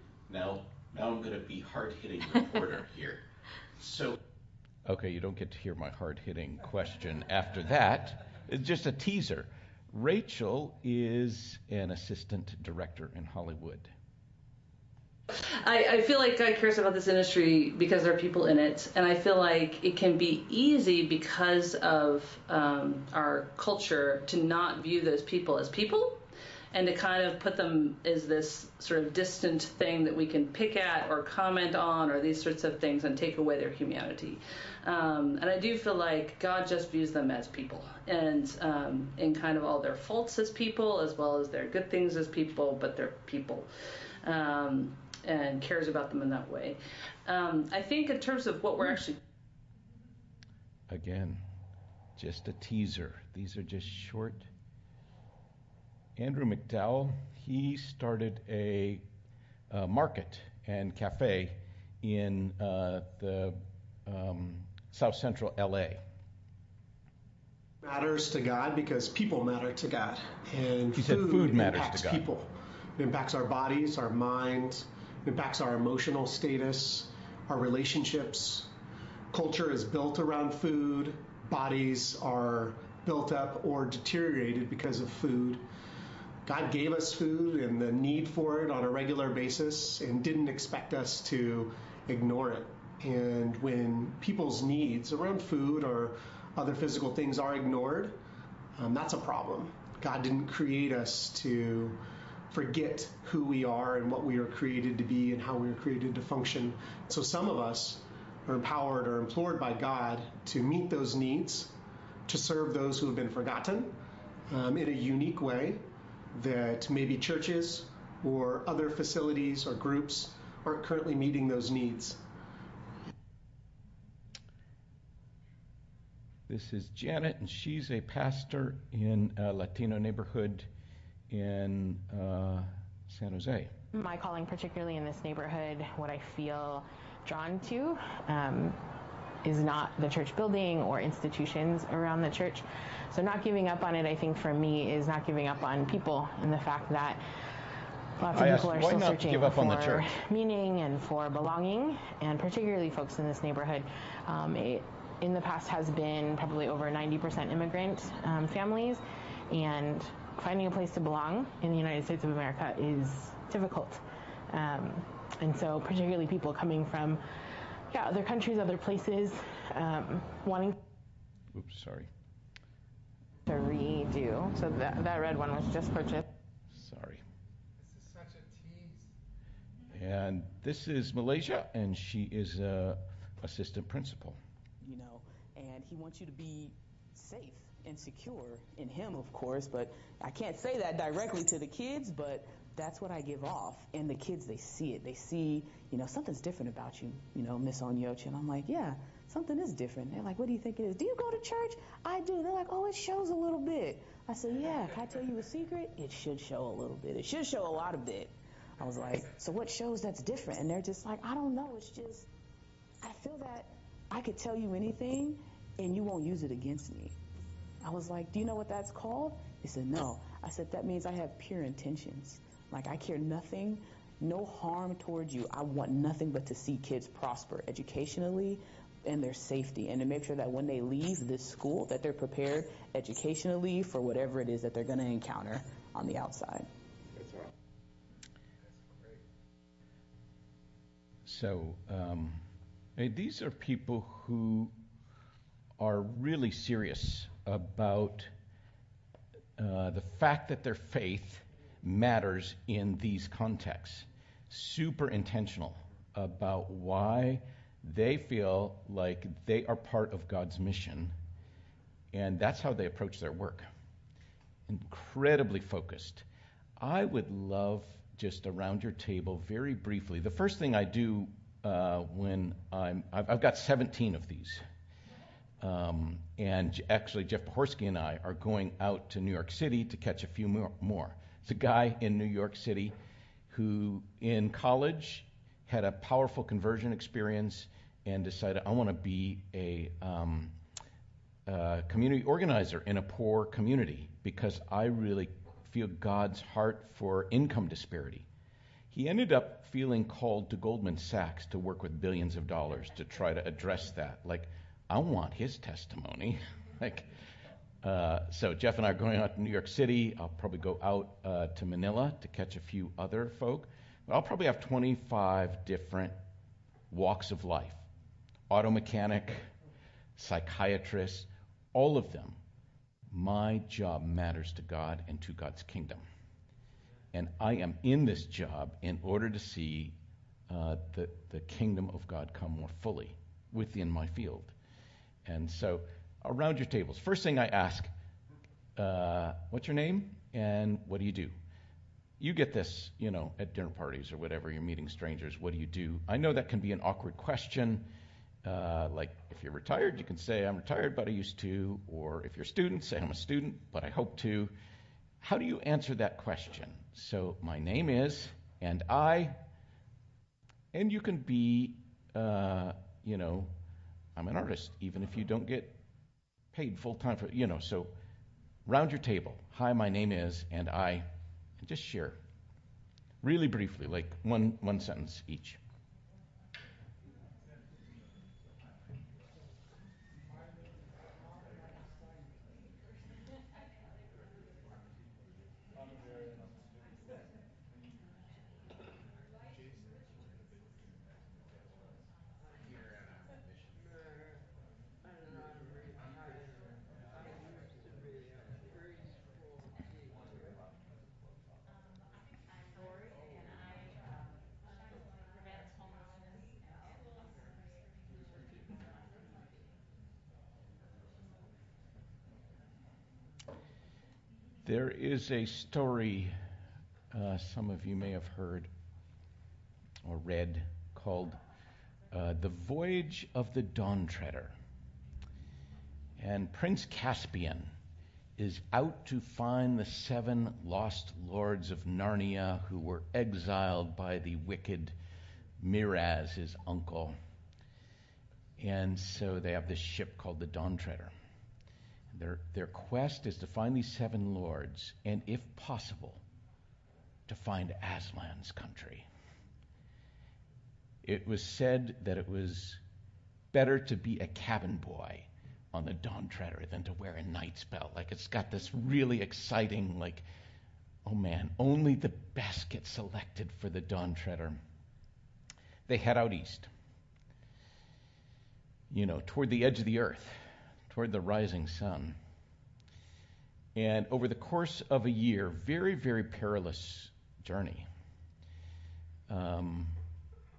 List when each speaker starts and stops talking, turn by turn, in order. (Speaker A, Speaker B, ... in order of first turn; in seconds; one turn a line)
Speaker A: 0.3-3.2
Speaker A: 3.8-4.2
Speaker A: 4.8-13.9
Speaker B: 15.3-26.2
Speaker B: 26.7-43.7
Speaker B: 44.2-49.2
Speaker A: 50.9-51.4
Speaker A: 52.2-54.5
Speaker A: 56.2-59.0
Speaker A: 59.7-66.0
Speaker C: 67.8-78.7
Speaker A: 71.0-72.3
Speaker C: 79.3-85.7
Speaker C: 86.5-98.2
Speaker C: 98.8-111.7
Speaker C: 112.3-114.0
Speaker C: 114.5-115.8
Speaker C: 116.3-122.2
Speaker A: 126.5-130.7
Speaker A: 131.3-133.7
Speaker D: 133.9-138.8
Speaker D: 139.4-147.2
Speaker D: 148.2-167.2
Speaker A: 148.3-150.1
Speaker D: 167.9-170.8
Speaker A: 171.5-172.1
Speaker D: 173.5-176.2
Speaker A: 176.7-177.2
Speaker E: 177.8-179.1
Speaker A: 179.9-184.4
Speaker F: 184.8-212.3
Speaker F: 213.0-217.2
Speaker F: 217.8-237.4
Speaker E: 238.6-239.2
Speaker A: 241.3-242.4
Speaker A: 243.0-244.7
Speaker A: 245.8-248.3
Speaker A: 249.6-261.1
Speaker A: 262.1-263.7
Speaker A: 264.7-266.2
Speaker A: 266.8-274.6
Speaker A: 275.6-282.9
Speaker A: 283.5-290.5
Speaker A: 291.5-298.3
Speaker A: 298.9-307.1
Speaker A: 307.8-316.1
Speaker A: 316.9-317.9
Speaker A: 318.5-319.4
Speaker A: 320.2-322.4
Speaker A: 323.1-326.1
Speaker A: 327.1-330.0
Speaker A: 330.5-334.6
Speaker A: 335.2-337.9
Speaker A: 338.8-341.4
Speaker A: 342.2-347.9
Speaker A: 348.4-354.5
Speaker A: 355.2-359.4
Speaker A: 360.7-363.5
Speaker A: 364.2-365.8
Speaker A: 366.5-367.9
Speaker A: 368.7-371.1
Speaker A: 371.6-372.2
Speaker A: 373.2-375.6
Speaker E: 380.3-382.6
Speaker E: 385.8-387.0
Speaker E: 389.5-390.6
Speaker E: 392.6-393.4
Speaker E: 395.2-396.4
Speaker E: 397.1-398.7
Speaker E: 400.1-400.6
Speaker A: 414.6-416.3
Speaker A: 417.1-418.7
Speaker A: 420.1-421.4
Speaker A: 422.1-424.6
Speaker A: 426.2-427.7
Speaker A: 428.4-434.9
Speaker A: 435.6-437.1
Speaker A: 438.6-441.1
Speaker A: 442.1-446.2
Speaker A: 447.3-449.1
Speaker A: 451.0-452.8
Speaker A: 453.5-460.2
Speaker A: 461.1-464.6
Speaker A: 465.9-466.7
Speaker A: 468.9-472.2
Speaker A: 473.8-477.9
Speaker A: 479.3-480.0